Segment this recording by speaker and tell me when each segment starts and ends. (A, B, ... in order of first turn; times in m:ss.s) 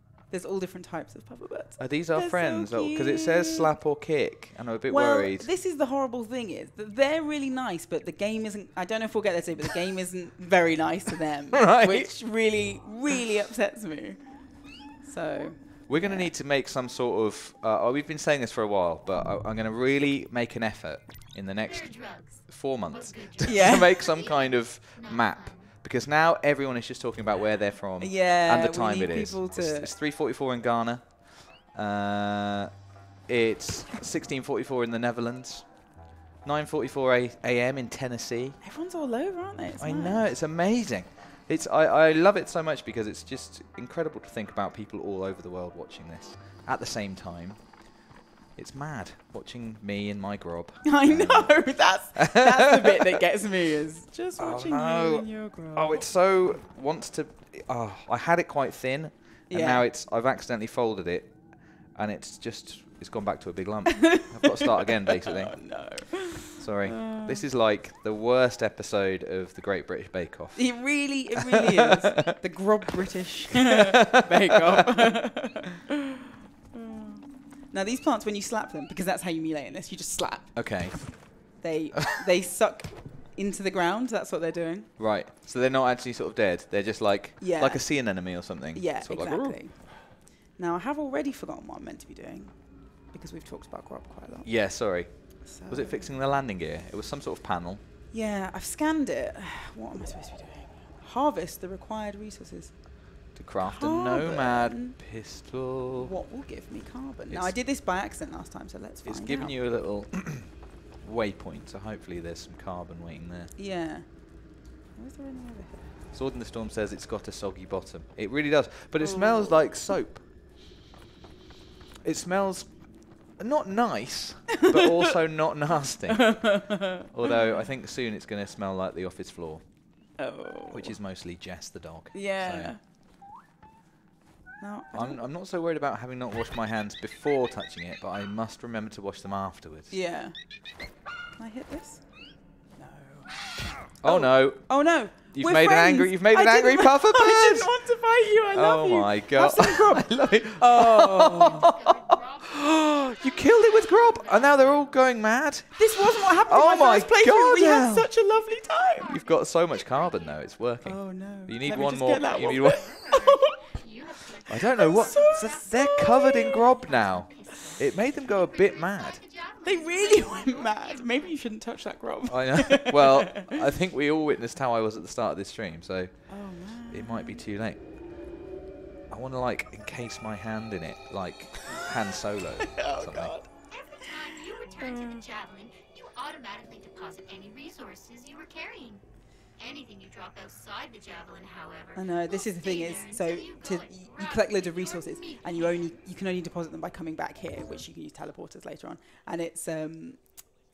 0:00.3-0:03.8 A
0:01.8-0:05.5 B
0:04.9-0:16.3 A
0:11.5-0:12.1 B
0:15.9-0:32.7 B
0:21.7-0:25.7 C
0:23.4-0:23.9 A
0:28.0-0:29.9 A
0:33.3-0:35.8 B
0:36.4-0:38.6 B
0:38.6-0:40.3 A
0:39.8-0:47.9 B
0:48.6-0:53.2 B
0:50.8-0:56.1 A
0:54.4-1:11.7 B
0:59.5-0:59.9 A
1:03.9-1:07.4 A
1:10.6-1:15.8 A
1:14.7-1:15.1 B
1:16.8-1:24.9 A
1:20.6-1:21.6 B
1:25.0-1:29.6 B
1:27.4-1:34.5 A
1:34.4-1:37.8 B
1:35.4-1:36.1 A
1:38.1-1:42.8 A
1:43.4-1:46.1 B
1:43.6-1:45.0 A
1:45.9-1:49.6 A
1:47.3-1:47.6 B
1:49.0-1:53.5 B
1:53.6-1:56.0 A
1:56.1-2:00.2 B
1:59.0-1:59.7 A
2:02.0-2:09.6 B
2:04.6-2:05.1 A
2:06.1-2:07.5 A
2:10.2-2:11.0 A
2:10.7-2:12.7 B
2:12.1-2:12.8 A
2:14.6-2:15.2 A
2:14.9-2:19.9 B
2:19.9-2:20.6 A
2:21.3-2:22.0 A
2:22.8-2:31.7 A
2:24.0-2:27.7 B
2:28.5-2:38.1 B
2:31.4-2:35.1 C
2:35.8-2:39.2 A
2:38.6-2:40.6 C
2:39.0-2:42.9 B
2:40.8-2:43.6 A
2:42.2-2:51.4 C
2:44.5-2:49.2 B
2:44.8-2:46.7 A
2:49.6-2:53.5 A
2:52.3-2:57.8 B
2:56.3-2:57.4 A
2:59.1-3:03.4 B
3:02.7-3:03.5 A
3:03.7-3:09.0 C
3:04.7-3:05.2 A
3:09.6-3:16.0 C
3:12.0-3:20.2 A